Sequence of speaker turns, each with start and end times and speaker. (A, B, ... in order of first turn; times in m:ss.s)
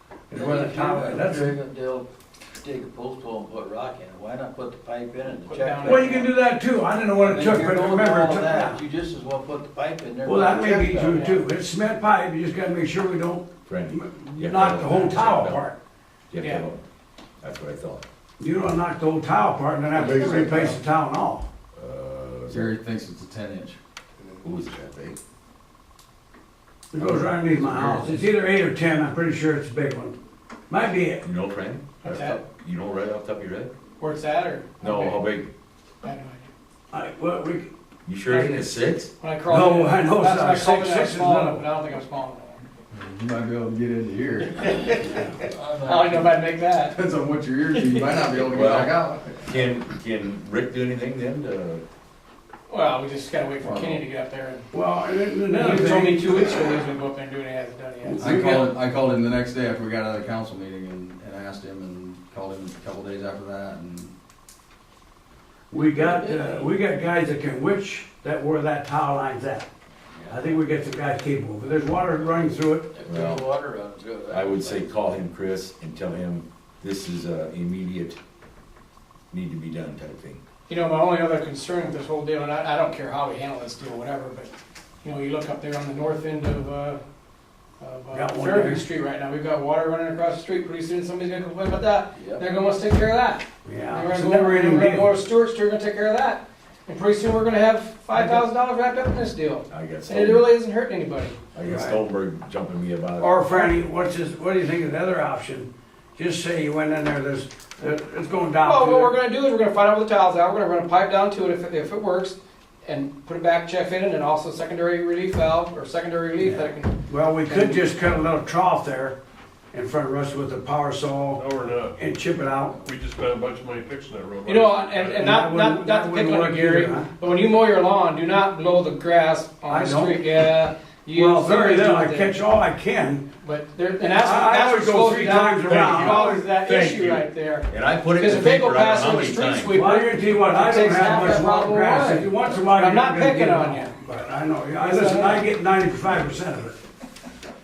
0:00.3-0:01.6 A
0:00.3-0:06.1 B
0:05.4-0:06.3 C
0:05.8-0:08.8 A
0:07.2-0:11.4 B
0:10.2-0:15.8 A
0:11.1-0:11.4 C
0:13.7-0:15.7 D
0:16.3-0:16.8 D
0:16.4-0:16.7 C
0:17.4-0:18.0 D
0:18.4-0:21.5 A
0:19.9-0:20.5 D
0:21.8-0:22.7 D
0:22.5-0:23.8 E
0:24.4-0:25.2 D
0:26.9-0:30.2 A
0:27.0-0:28.2 D
0:30.7-0:31.3 A
0:31.2-0:33.7 D
0:32.0-0:32.4 C
0:34.0-0:35.3 C
0:34.8-0:35.5 D
0:36.0-0:36.5 C
0:36.9-0:37.7 A
0:38.1-0:39.1 D
0:38.3-0:38.6 A
0:39.2-0:42.6 C
0:39.5-0:41.6 A
0:42.9-0:45.4 E
0:44.6-0:45.0 C
0:45.4-0:46.2 B
0:45.8-0:47.0 C
0:46.9-0:49.7 E
0:48.5-0:51.8 D
0:52.7-0:54.7 C
0:53.6-0:54.0 E
0:54.7-0:56.5 A
0:55.5-0:58.4 C
0:58.0-0:58.7 A
0:58.2-1:04.2 E
1:05.7-1:09.7 A
1:05.8-1:06.7 B
1:10.2-1:13.0 A
1:13.0-1:14.9 B
1:13.0-1:13.4 D
1:14.3-1:18.2 D
1:19.3-1:20.4 D
1:20.7-1:24.5 C
1:25.0-1:27.0 C
1:27.8-1:41.4 C
1:28.1-1:28.8 A
1:33.6-1:35.1 A
1:38.1-1:38.4 D
1:39.7-1:40.5 D
1:41.5-1:43.5 D
1:41.6-1:42.0 A
1:43.2-1:49.2 A
1:48.6-1:57.9 C
1:56.4-1:59.2 A
1:59.7-2:01.4 A
2:01.4-2:02.0 F
2:02.0-2:02.8 A
2:02.8-2:05.3 F
2:04.5-2:12.4 C
2:05.2-2:07.1 A
2:09.7-2:10.2 A
2:11.1-2:13.3 A
2:13.4-2:23.9 C
2:14.1-2:16.6 A
2:15.7-2:19.8 D
2:19.7-2:26.8 A
2:24.8-2:25.5 C